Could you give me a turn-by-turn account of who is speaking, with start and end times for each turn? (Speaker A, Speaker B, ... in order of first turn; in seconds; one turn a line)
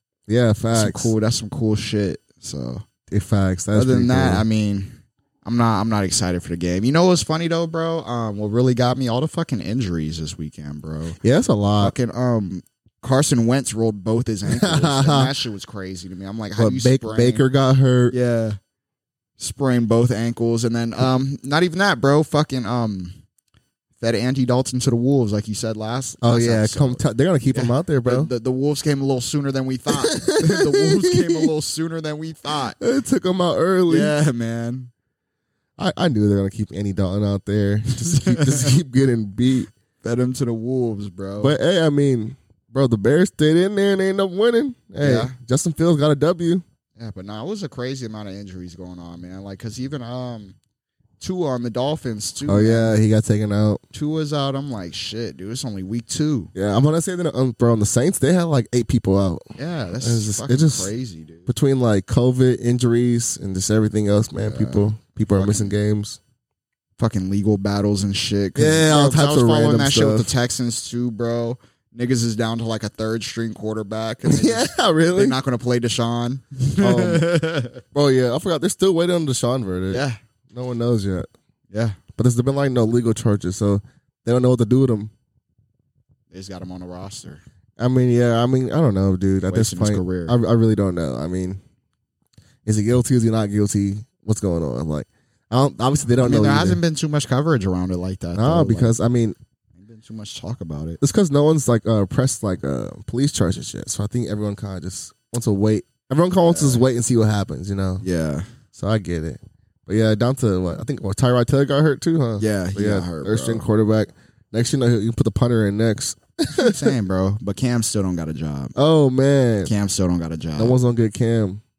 Speaker A: 0.3-1.1
Speaker B: 0.7-2.9
Speaker A: 3.1-4.4
Speaker B: 3.7-11.2
Speaker A: 11.2-11.9
Speaker B: 11.8-17.4
Speaker A: 14.5-15.3
Speaker A: 16.6-18.1
Speaker B: 18.1-18.6
Speaker B: 19.4-23.2
Speaker B: 24.0-32.8
Speaker A: 26.2-28.3
Speaker A: 30.0-31.5
Speaker A: 32.8-34.1
Speaker B: 33.9-34.9
Speaker A: 35.8-39.7
Speaker B: 38.0-38.7
Speaker B: 40.0-41.5
Speaker A: 41.4-46.6
Speaker B: 45.0-45.4
Speaker B: 47.0-50.6
Speaker B: 51.2-52.9
Speaker A: 52.5-53.8
Speaker B: 53.9-56.5
Speaker A: 56.5-59.5
Speaker B: 59.6-61.5
Speaker A: 60.0-60.9
Speaker A: 61.5-66.2
Speaker B: 64.4-65.8
Speaker B: 67.0-77.8
Speaker A: 68.6-70.3
Speaker A: 74.2-75.4
Speaker A: 76.8-77.3
Speaker A: 77.9-81.3
Speaker B: 79.9-80.2
Speaker B: 81.7-82.0
Speaker A: 82.2-85.1
Speaker B: 86.3-87.4
Speaker A: 87.8-91.6
Speaker B: 89.5-90.3
Speaker A: 92.6-96.8
Speaker B: 96.2-98.9
Speaker A: 98.3-99.4
Speaker B: 99.8-101.0
Speaker A: 101.0-108.0
Speaker B: 106.4-106.9
Speaker B: 108.0-108.5
Speaker A: 108.8-116.9
Speaker B: 112.4-113.7
Speaker B: 116.5-118.7
Speaker A: 118.8-119.7
Speaker B: 119.6-120.8
Speaker A: 120.6-121.6